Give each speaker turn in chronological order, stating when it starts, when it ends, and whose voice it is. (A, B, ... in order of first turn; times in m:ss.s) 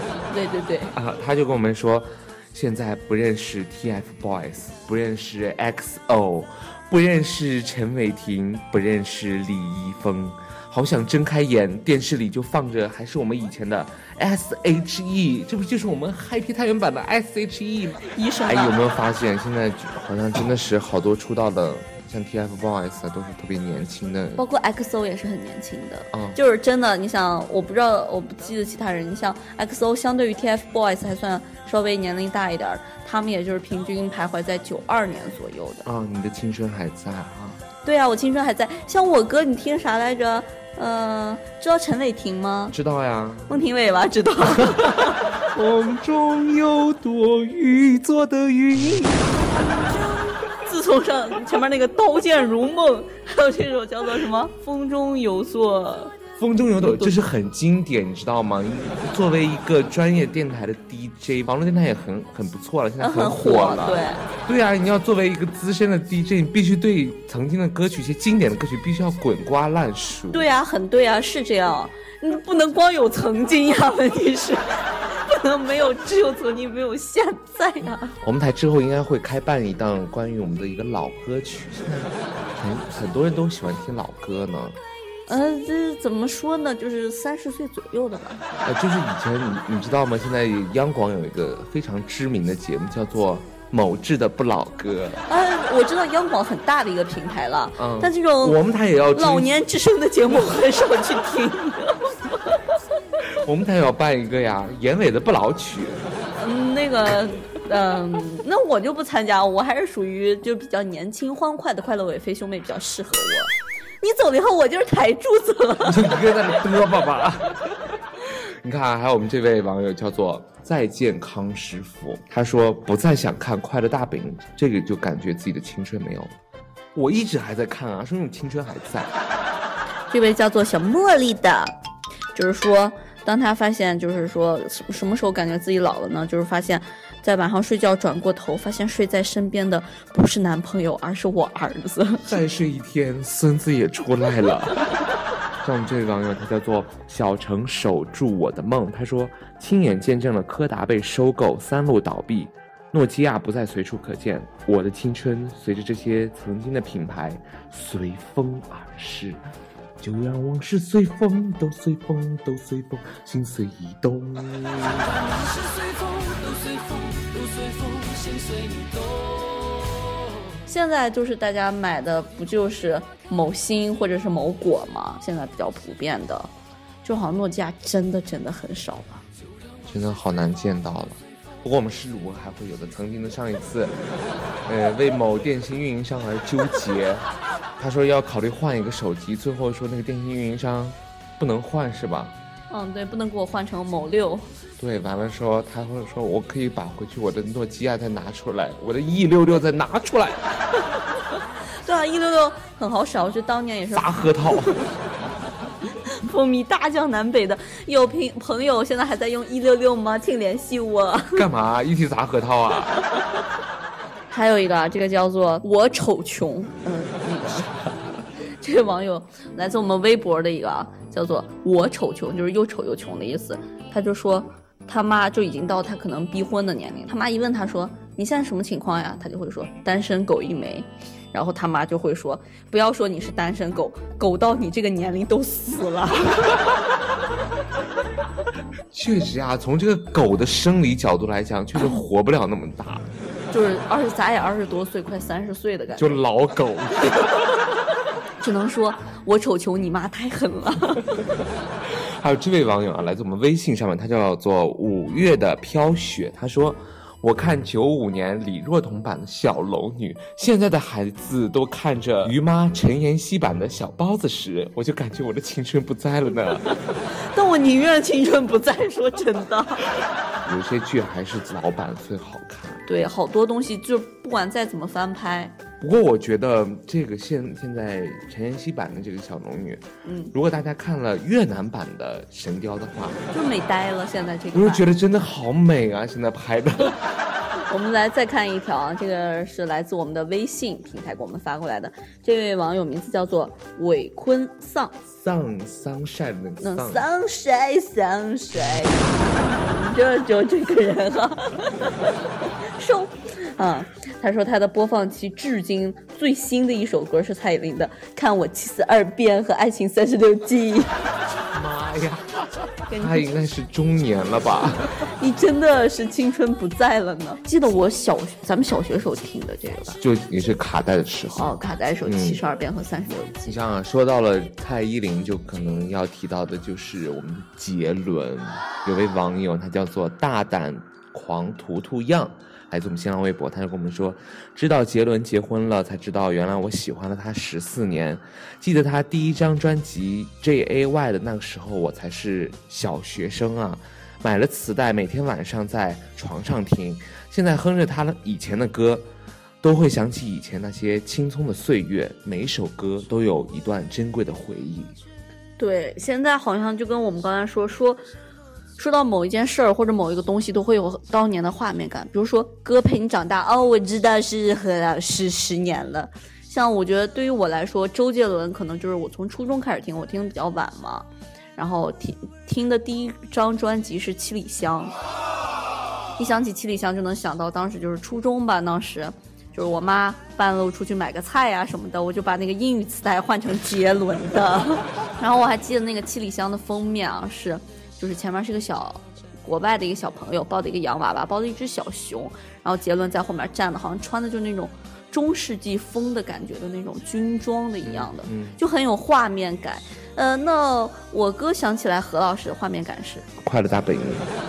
0:00.3-0:00.9 A
0:00.9-0:24.4 B
0:18.1-0:18.8 A
0:24.4-0:35.8 A
0:26.1-0:26.4 B
0:35.8-0:37.6 B
0:37.8-0:42.8 A
0:42.7-0:43.6 B
0:43.5-0:45.4 A
0:44.6-0:49.4 B
0:50.6-0:56.1 A
0:56.4-1:10.5 B
0:56.8-0:57.2 A
1:03.0-1:04.2 A
1:10.3-1:18.1 A
1:18.2-1:24.8 B
1:25.3-1:28.4 A
1:28.6-1:35.2 B
1:35.3-1:38.6 A
1:37.8-1:39.5 B
1:39.1-1:42.6 A
1:43.4-1:46.0 B
1:46.4-1:56.5 A
1:55.8-2:06.3 B
2:06.9-2:09.1 B
2:10.1-2:11.7 A
2:12.3-2:22.4 A
2:22.3-2:24.9 B
2:25.6-2:39.4 B
2:40.0-2:45.2 B
2:45.3-2:49.1 C
2:50.6-2:56.5 A
2:57.0-2:59.2 A
2:59.8-3:04.0 B
3:04.6-3:07.2 B
3:07.8-3:12.3 B
3:12.7-3:14.5 A
3:14.8-3:20.4 B
3:21.7-3:24.9 A
3:23.9-3:24.8 B
3:26.0-3:31.4 A
3:31.3-3:33.0 B
3:34.3-3:37.7 A
3:38.6-3:56.6 A
3:58.9-4:03.1 B
4:03.5-4:06.2 A
4:06.0-4:07.5 B
4:08.4-4:11.2 A
4:11.8-4:26.7 B
4:26.7-4:29.9 A
4:30.4-4:32.8 B
4:32.8-4:35.6 A
4:35.8-4:43.2 B
4:40.0-4:40.3 A
4:43.3-4:44.8 A
4:44.5-4:47.0 B
4:47.7-4:55.0 A
4:55.1-4:57.1 B
4:56.6-5:10.9 A
5:11.5-5:15.0 B
5:12.9-5:13.3 A
5:15.1-5:20.0 A
5:20.0-5:22.4 B
5:21.3-5:23.6 A
5:23.4-5:49.0 B
5:49.6-5:54.9 B
5:55.6-5:58.0 A
5:58.8-6:15.0 A
6:16.2-6:43.3 A
6:37.8-6:38.6 B
6:43.4-6:44.3 B